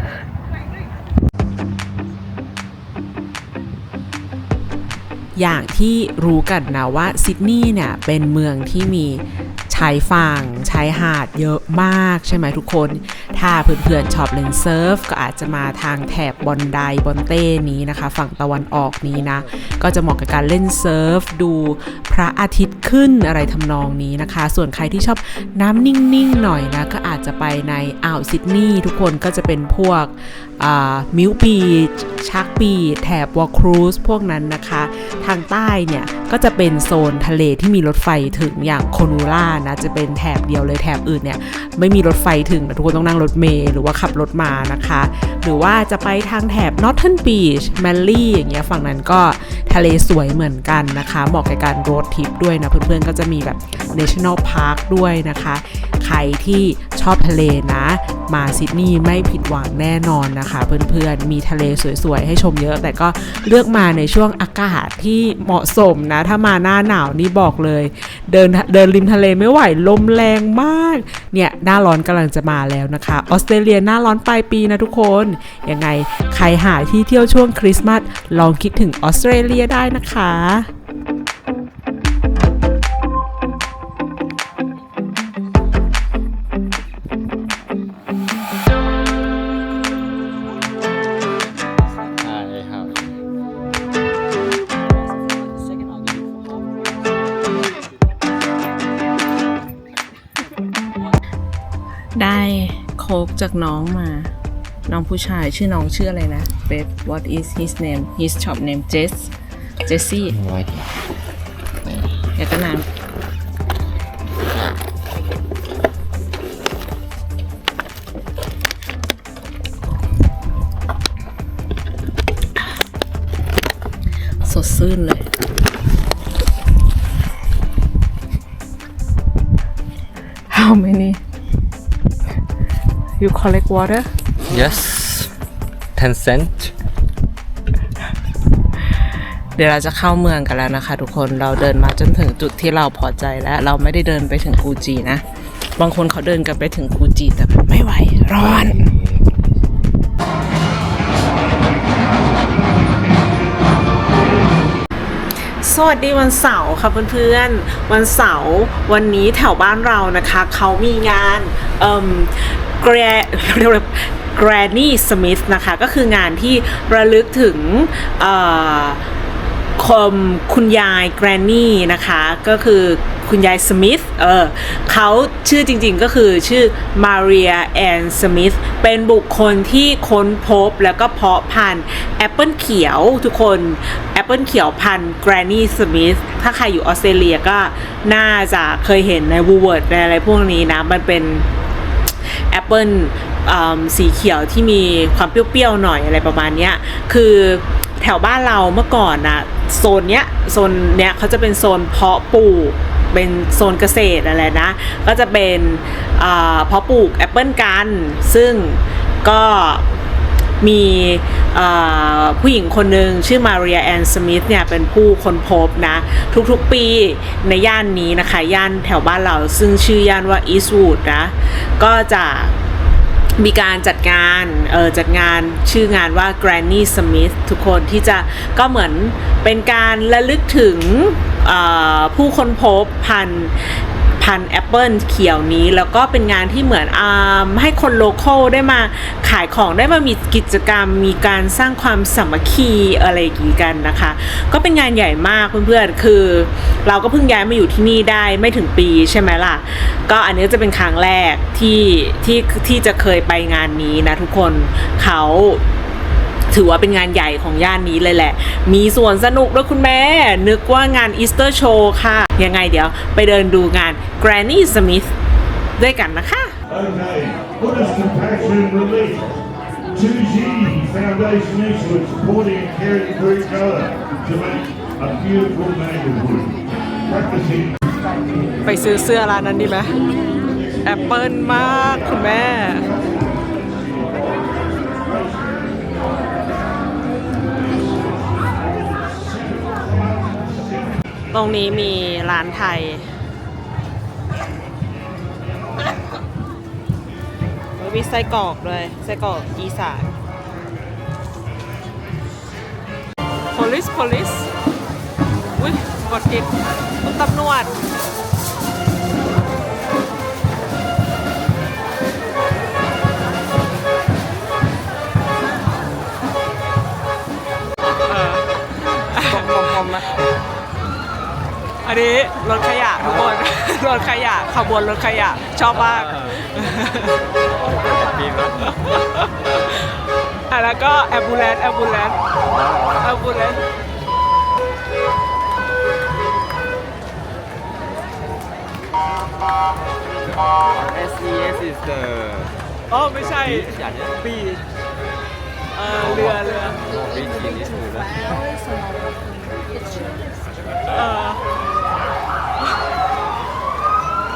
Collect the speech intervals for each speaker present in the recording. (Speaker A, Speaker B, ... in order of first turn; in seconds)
Speaker A: 5.3-80.7, 102.2-104.3, 104.9-109.3, 109.8-110.4, 112.3-112.8, 124.4-125.3, 130.5-131.2, 133.2-134.1, 139.5-148.9, 155.6-169.0, 169.8-191.5, 192.2-209.9, 210.6-222.6, 223.4-255.6, 256.5-265.1, 265.8-266.6, 270.4-273.9, 278.6-280.0, 280.8-282.9, 291.3-293.1, 297.8-300.1, 303.5-304.5, 305.6-306.5, 307.0-307.7, 318.1-318.4, 319.0-320.0, 321.8-327.2, 328.6-329.8, 330.5-332.2, 333.0-333.6, 342.9-343.8, 345.7-346.8, 350.9-351.4
Speaker B: 92.2-93.0, 110.3-110.9, 134.4-135.3, 135.9-136.7, 148.4-149.4, 319.6-320.0, 327.9-328.5, 332.5-333.0, 340.7-342.5, 343.6-344.6, 346.0-348.2
Speaker C: 266.9-269.0, 270.1-271.5, 272.3-273.6, 275.2-276.2